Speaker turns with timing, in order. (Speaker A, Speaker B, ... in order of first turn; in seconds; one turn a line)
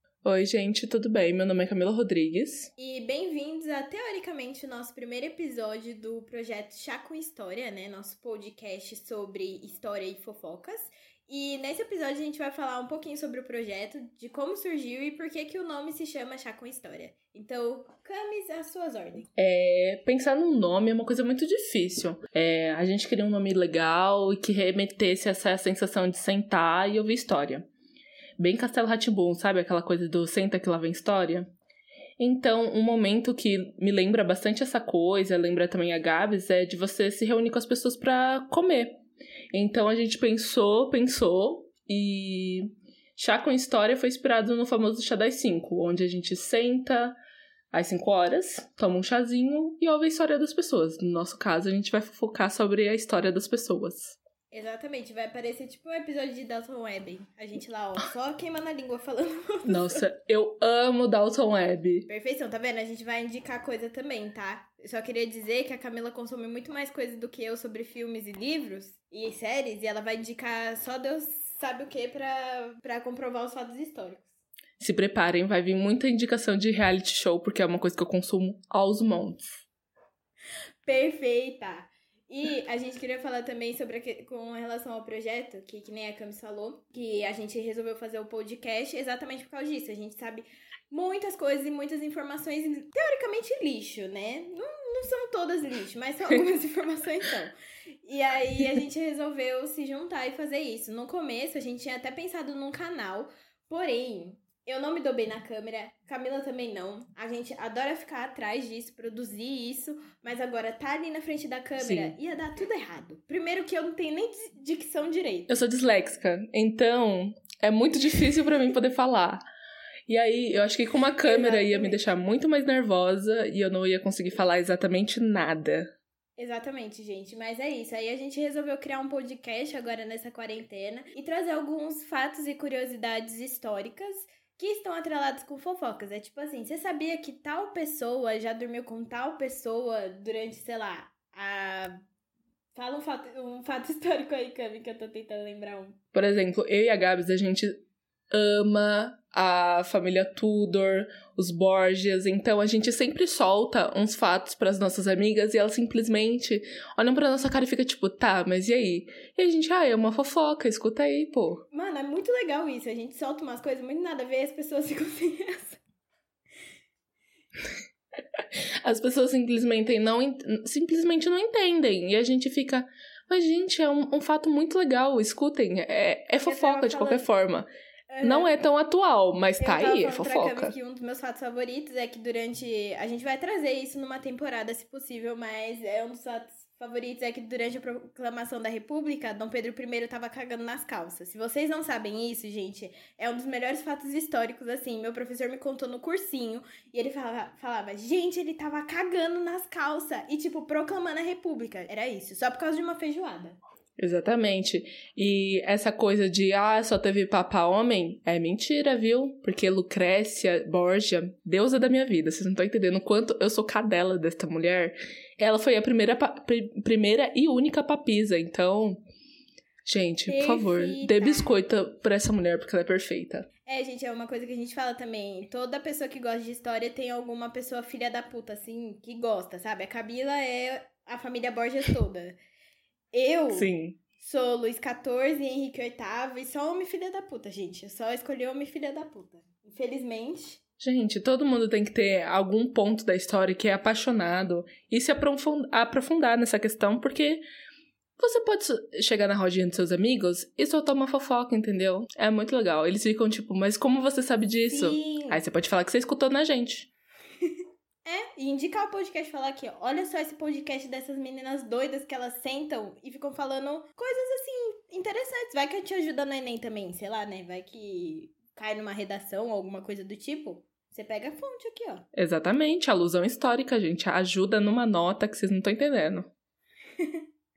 Speaker A: 0.2-2.7
Speaker B: 2.8-19.3
Speaker A: 19.4-27.6
Speaker A: 28.4-31.5
Speaker A: 32.2-38.9
Speaker A: 39.5-47.1
Speaker A: 47.7-54.2
Speaker B: 54.5-60.1
Speaker A: 59.7-62.1
Speaker B: 62.1-74.3
Speaker A: 74.8-79.6
Speaker B: 80.8-115.5
Speaker A: 111.8-112.1
Speaker A: 115.5-119.4
Speaker A: 120.1-125.8
Speaker B: 121.2-122.1
Speaker B: 126.4-142.0
Speaker B: 142.7-146.0
Speaker A: 146.1-147.7
Speaker A: 148.3-161.6
Speaker B: 161.7-165.8
Speaker A: 168.8-177.7
Speaker B: 176.4-177.3
Speaker B: 178.1-178.5
Speaker A: 178.2-180.7
Speaker B: 179.6-203.6
Speaker A: 204.0-219.0
Speaker A: 219.8-223.5
Speaker B: 220.2-221.6
Speaker B: 223.7-232.3
Speaker B: 233.1-240.6
Speaker A: 233.5-234.0
Speaker A: 240.8-247.4
Speaker A: 248.2-256.9
Speaker B: 254.7-255.4
Speaker B: 258.0-272.0
Speaker A: 272.1-276.3